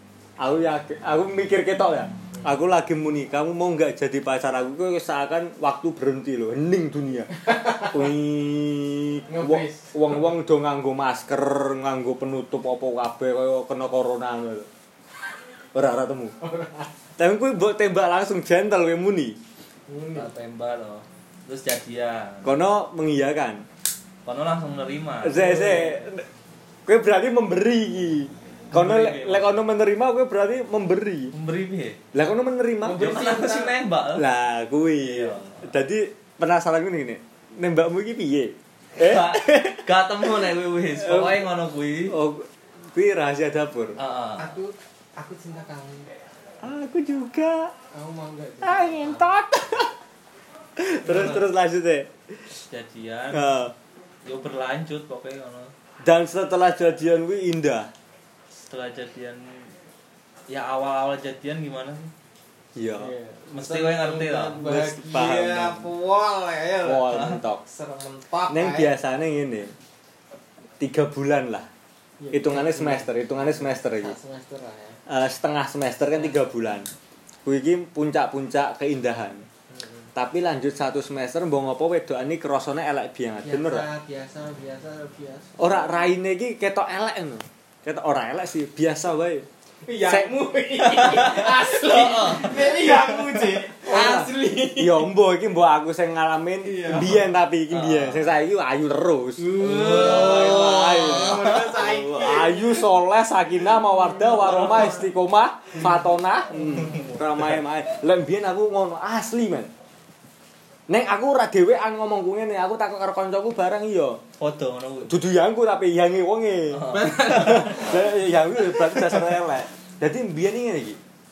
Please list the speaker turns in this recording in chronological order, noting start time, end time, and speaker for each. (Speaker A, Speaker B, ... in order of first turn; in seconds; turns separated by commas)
Speaker A: 0.4-14.7, Speaker B: 7.4-8.1, Speaker B: 9.3-10.2, Speaker A: 15.7-16.3, Speaker B: 16.4-16.9, Speaker A: 17.2-19.4, Speaker B: 19.9-20.3, Speaker C: 20.1-22.5, Speaker A: 22.4-23.6, Speaker C: 24.2-26.0, Speaker A: 25.2-26.2, Speaker A: 26.9-31.3, Speaker C: 28.7-29.4, Speaker C: 31.3-32.0, Speaker A: 32.1-33.1, Speaker B: 32.8-33.8, Speaker C: 33.0-34.2, Speaker A: 34.1-39.8, Speaker C: 35.0-35.6, Speaker C: 39.0-42.1, Speaker A: 41.0-41.4, Speaker A: 42.1-44.0, Speaker C: 44.0-44.5, Speaker B: 44.4-46.1, Speaker A: 46.6-47.7, Speaker B: 47.9-49.3, Speaker A: 48.6-49.9, Speaker A: 50.8-52.4, Speaker C: 51.0-51.4, Speaker C: 52.7-53.5, Speaker A: 53.3-53.7, Speaker C: 54.2-55.7, Speaker A: 56.0-57.9, Speaker C: 58.6-59.7, Speaker C: 60.5-62.1, Speaker A: 62.8-63.1, Speaker B: 63.0-68.9, Speaker C: 63.5-64.7, Speaker A: 64.6-65.9, Speaker A: 66.8-67.6, Speaker C: 67.1-67.4, Speaker A: 68.5-69.7, Speaker A: 70.8-71.7, Speaker B: 72.2-75.0, Speaker A: 72.3-74.2, Speaker A: 75.1-76.9, Speaker A: 77.4-79.5, Speaker B: 79.7-80.1, Speaker A: 80.1-83.9, Speaker B: 83.4-85.7, Speaker A: 85.6-89.5, Speaker B: 89.8-95.1, Speaker A: 90.0-91.5, Speaker C: 91.1-93.6, Speaker A: 93.8-109.7, Speaker B: 96.6-97.2, Speaker C: 97.7-98.3, Speaker B: 99.4-102.8, Speaker C: 99.6-101.8, Speaker C: 104.2-105.1, Speaker A: 110.9-114.2, Speaker C: 114.4-115.1, Speaker A: 115.0-121.0, Speaker C: 116.7-118.0, Speaker B: 116.9-119.3